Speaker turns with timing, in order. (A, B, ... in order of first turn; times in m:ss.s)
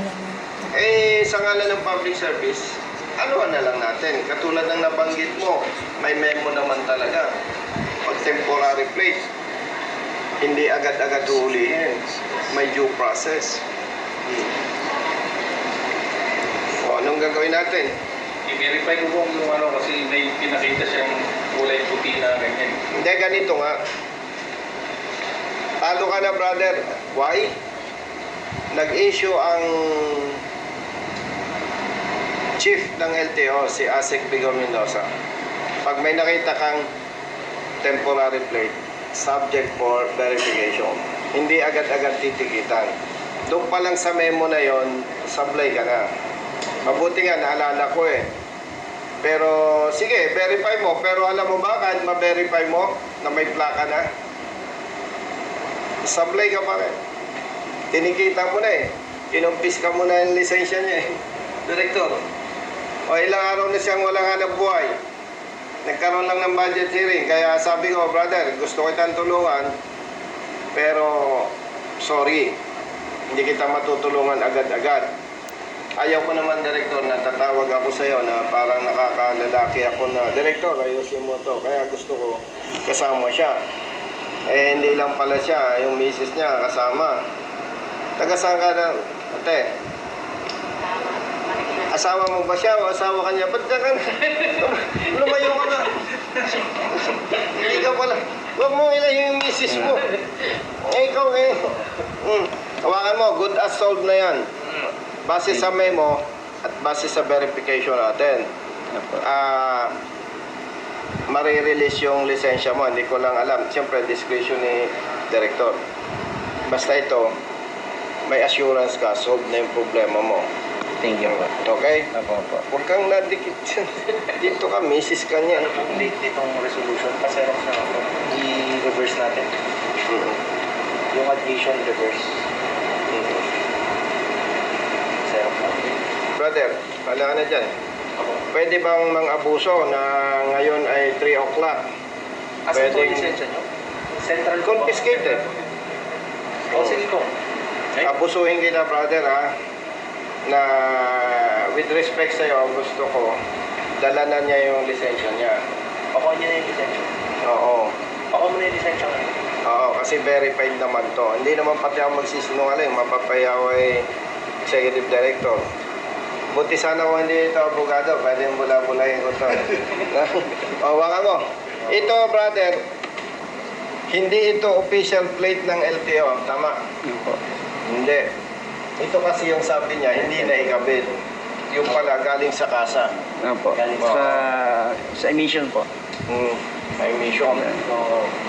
0:00.7-0:07.3 A
0:08.0-0:09.2 A
0:10.4-0:12.0 A
0:12.5-0:13.6 A
0:16.8-0:17.9 A
0:18.5-0:22.8 B
0:22.9-0:23.8 A
0:25.8-0:27.5 A
0:28.7-0:30.4 A
0:32.6-0:35.1 A
0:35.8-0:36.9 A
0:37.8-0:42.9 A
0:43.5-0:46.1 A
0:46.8-0:48.3 A
0:49.2-0:54.0 A
0:56.0-0:57.0 A
0:57.9-1:01.1 A
1:01.7-1:02.2 A
1:03.1-1:04.9 A
1:05.8-1:09.7 A
1:10.8-1:12.6 A
1:13.3-1:15.1 A
1:16.0-1:23.6 A
1:24.5-1:27.2 A
1:28.2-1:29.7 A
1:31.9-1:40.1 A
1:40.8-1:44.4 A
1:45.2-1:48.5 A
1:49.2-1:50.0 A
1:51.3-1:55.8 A
1:56.7-1:57.3 A
1:58.3-2:00.5 A
2:01.0-2:01.5 C
2:01.3-2:02.1 A
2:02.2-2:02.6 C
2:02.7-2:05.8 A
2:05.6-2:09.5 D
2:10.1-2:10.4 A
2:11.1-2:12.4 D
2:15.3-2:16.0 D
2:16.4-2:17.7 A
2:18.5-2:21.8 A
2:22.7-2:23.7 D
2:22.7-2:23.3 A
2:24.2-2:25.4 D
2:24.6-2:25.4 A
2:26.7-2:27.3 D
2:28.0-2:29.5 A
2:30.5-2:33.4 A
2:34.0-2:35.6 A
2:36.1-2:37.1 D
2:37.4-2:37.9 A
2:38.3-2:39.3 D
2:39.6-2:44.1 A
2:44.7-2:45.6 A
2:46.5-2:52.8 A
2:54.1-2:56.8 A
2:57.0-2:57.4 C
2:57.9-2:58.3 A
2:59.0-3:01.2 A
3:01.7-3:03.2 A
3:03.4-3:05.9 C
3:03.8-3:04.1 D
3:04.0-3:04.2 A
3:06.3-3:07.8 A
3:07.6-3:07.8 C